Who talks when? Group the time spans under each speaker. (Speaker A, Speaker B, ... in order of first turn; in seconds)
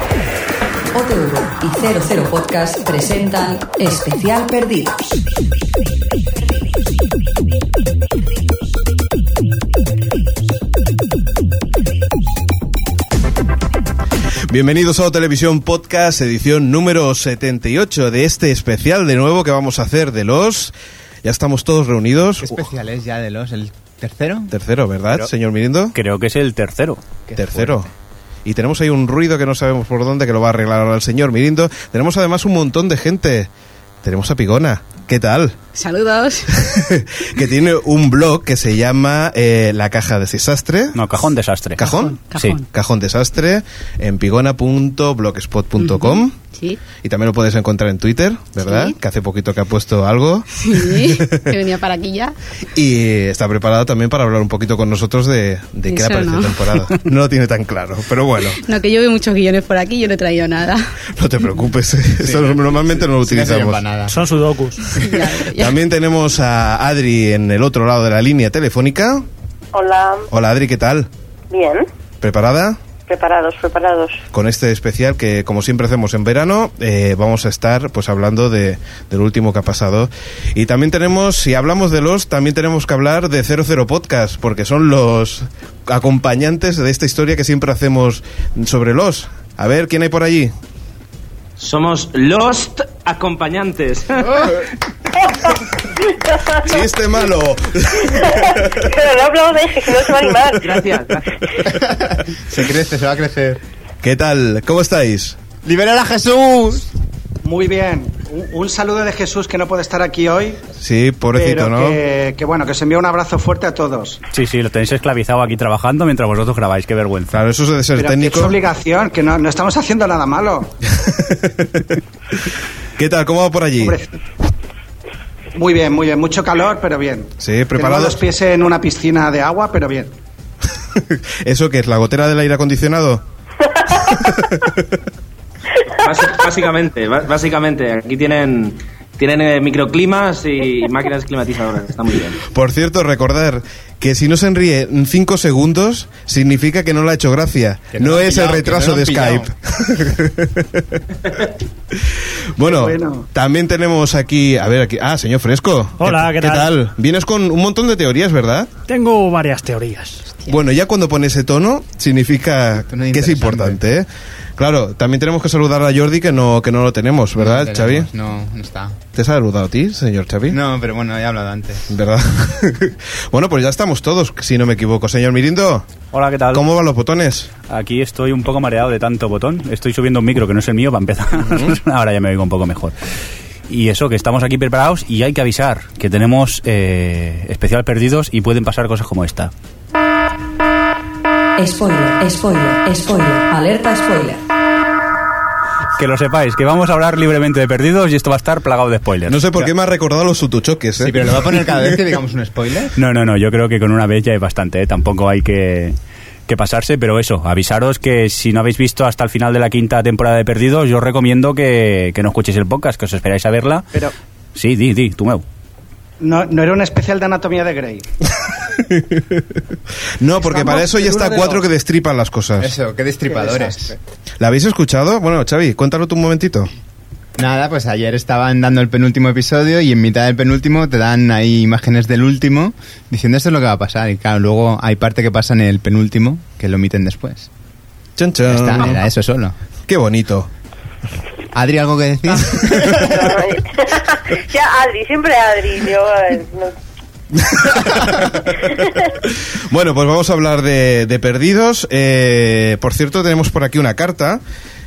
Speaker A: 0.9-5.2, 191.6-194.4
Speaker B: 14.5-22.6, 24.5-25.9, 27.4-27.9, 28.4-33.5, 34.0-35.5, 36.6-41.0, 41.8-46.4, 47.0-51.5, 52.8-58.6, 61.2-63.9, 65.2-69.3, 70.3-71.1, 72.2-72.8, 74.3-90.5, 96.6-98.7, 104.0-105.4, 110.8-112.0, 117.3-118.5, 121.0-122.0, 123.0-124.0, 127.4-128.2, 130.9-133.2, 134.3-134.8, 142.5-151.5, 152.6-158.7, 160.5-168.1, 169.2-170.6, 171.9-175.9, 176.5-177.5, 181.5-181.8, 199.3-201.2, 218.8-219.4, 220.2-222.7, 224.4-226.7, 238.2-239.0, 239.9-240.5, 247.4-254.4
Speaker C: 22.4-24.5, 27.3-27.8, 62.2-64.2, 101.7-103.6, 105.6-106.9, 147.9-149.5, 162.9-163.8, 167.4-169.0, 170.5-171.9, 201.0-202.9, 222.6-223.9, 227.4-237.5, 238.5-239.6, 241.5-243.1
Speaker D: 25.9-27.0, 41.0-41.8, 42.4-42.6, 114.3-117.4, 176.1-176.6, 177.7-182.9, 183.7-189.5, 196.0-199.7, 203.0-205.9, 206.5-213.8, 214.5-215.4
Speaker E: 35.7-36.6, 41.8-42.6, 45.8-46.8, 48.6-49.0, 50.5-52.4, 55.9-57.1, 58.5-60.9, 65.0-65.8
Speaker F: 64.1-64.8, 156.0-156.7, 158.9-160.3
Speaker G: 69.7-70.3, 71.5-71.9, 73.1-74.2, 96.1-96.6, 98.2-100.6, 242.9-246.8
Speaker H: 91.6-94.6, 100.6-101.3, 136.0-142.4
Speaker I: 107.4-110.6, 111.3-114.2, 118.0-120.8, 123.8-124.1, 125.5-130.1, 152.7-153.3, 216.2-218.0, 220.4-221.6, 223.3-223.9